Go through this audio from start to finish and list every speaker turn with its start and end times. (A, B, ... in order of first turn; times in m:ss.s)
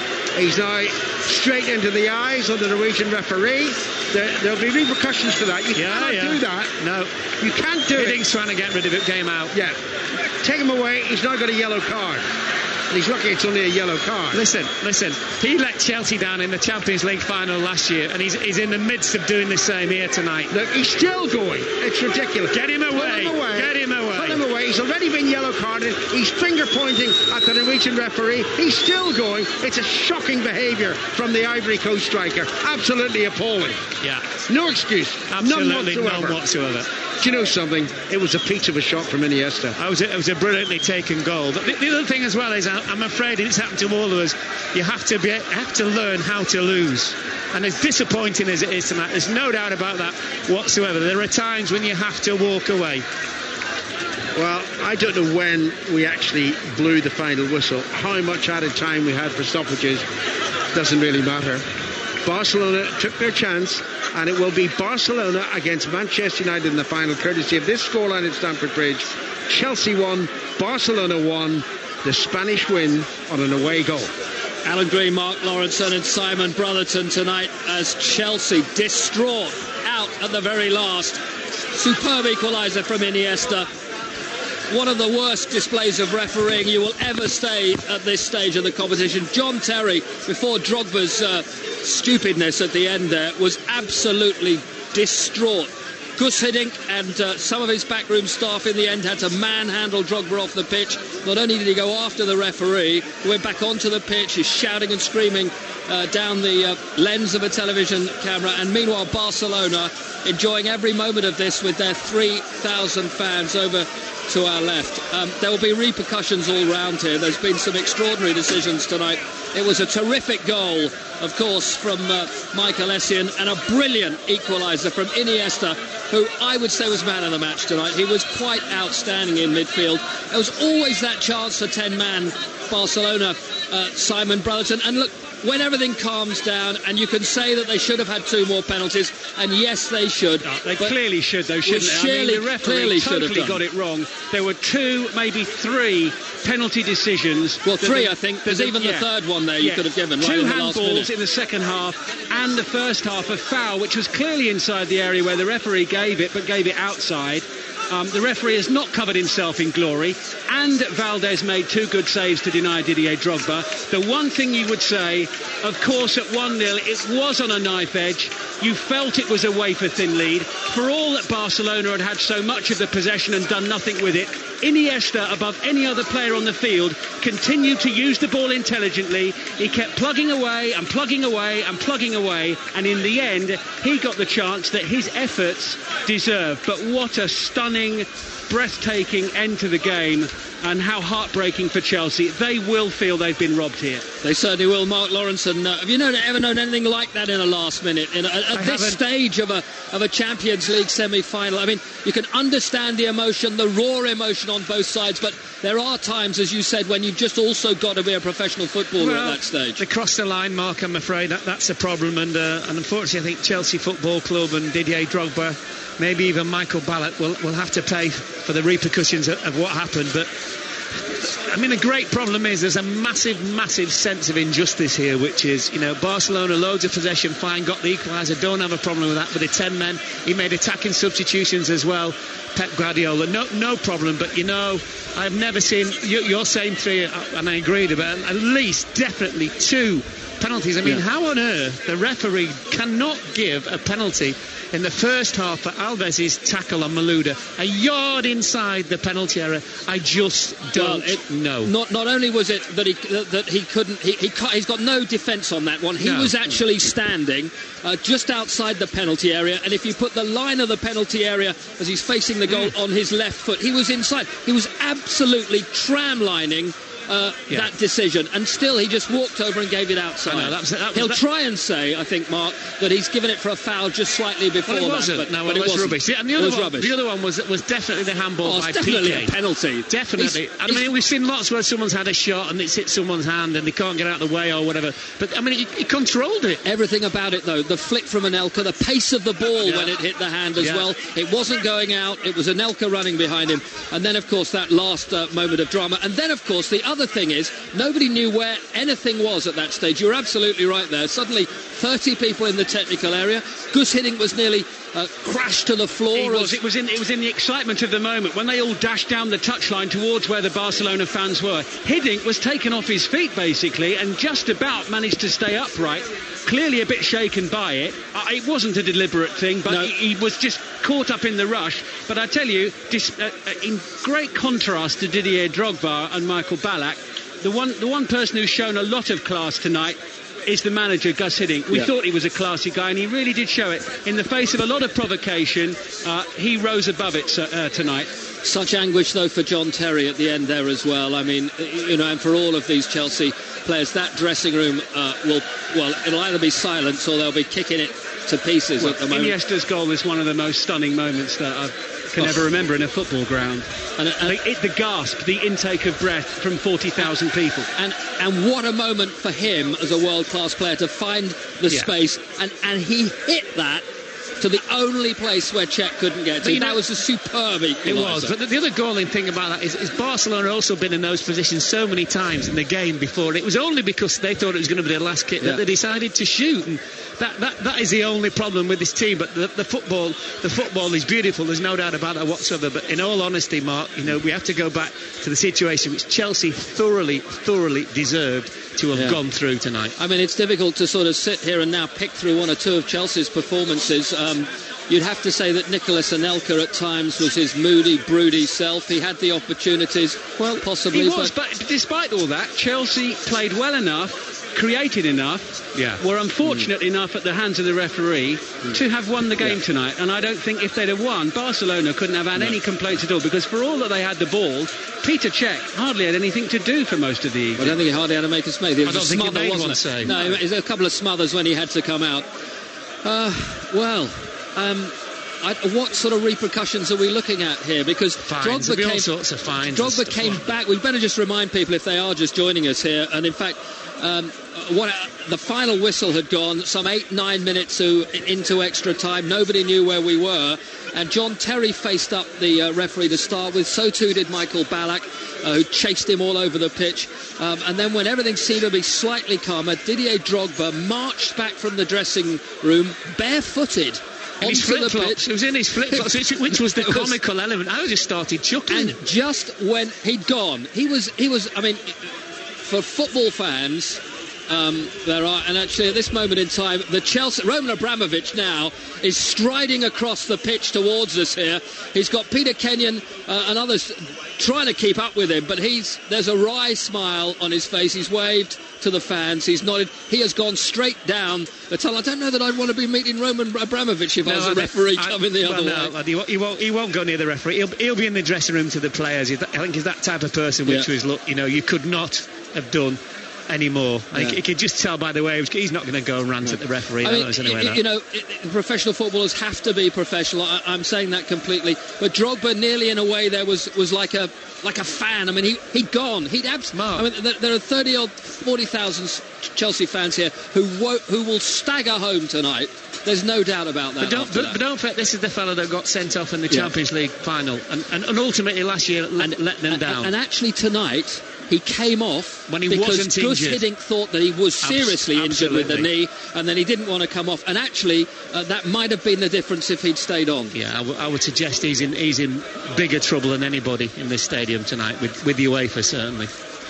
0:00.3-0:06.7 A
0:05.7-0:07.2 B
0:07.4-0:08.2 A
0:07.9-0:09.5 B
0:09.5-0:12.2 A
0:12.9-0:14.4 A
0:14.3-0:20.5 B
0:20.5-0:33.8 A
0:22.5-0:24.4 B
0:34.0-0:34.3 B
0:34.5-0:36.4 A
0:35.3-0:36.9 B
0:37.2-0:39.8 A
0:39.8-0:53.0 B
0:54.4-1:00.0 A
1:00.7-1:01.6 A
1:02.2-1:14.1 A
1:14.6-1:21.2 C
1:21.7-1:23.7 C
1:24.7-2:21.0 C
2:20.4-3:14.1 D
2:21.6-2:23.6 C
2:27.6-2:31.1 C
3:14.2-3:29.8 C
3:18.5-3:19.0 B
3:29.0-3:40.3 B
3:40.9-4:11.7 B
4:10.7-4:36.9 C
4:16.0-4:16.4 B
4:22.4-4:22.7 B
4:30.2-4:31.2 B
4:34.6-4:39.3 B
4:38.4-4:40.8 C
4:39.9-4:46.6 B
4:46.6-5:06.6 C
4:49.6-4:50.0 B
4:50.6-4:50.9 B
5:06.1-5:38.1 D
5:19.6-5:19.9 C
5:38.4-5:49.4 C
5:48.8-5:53.7 D
5:54.0-5:54.4 C
5:54.2-5:57.7 D
5:57.8-6:03.9 C
6:04.4-6:08.3 C
6:06.4-6:06.8 B
6:07.8-6:29.9 B
6:30.0-6:41.3 C
6:40.4-6:40.7 B
6:40.9-6:57.8 D
6:45.7-6:46.0 B
6:57.6-7:02.3 C
6:58.8-7:00.4 B
7:03.0-7:35.2 C
7:08.2-7:10.6 B
7:34.4-7:39.0 B
7:36.7-7:37.2 C
7:38.7-7:42.1 C
7:42.6-8:05.9 C
8:04.2-8:17.8 B
8:17.0-8:34.6 C
8:26.7-8:27.1 B
8:34.0-8:40.1 B
8:39.2-8:50.6 C
8:42.5-8:43.6 B
8:44.6-8:45.9 B
8:50.5-8:56.3 B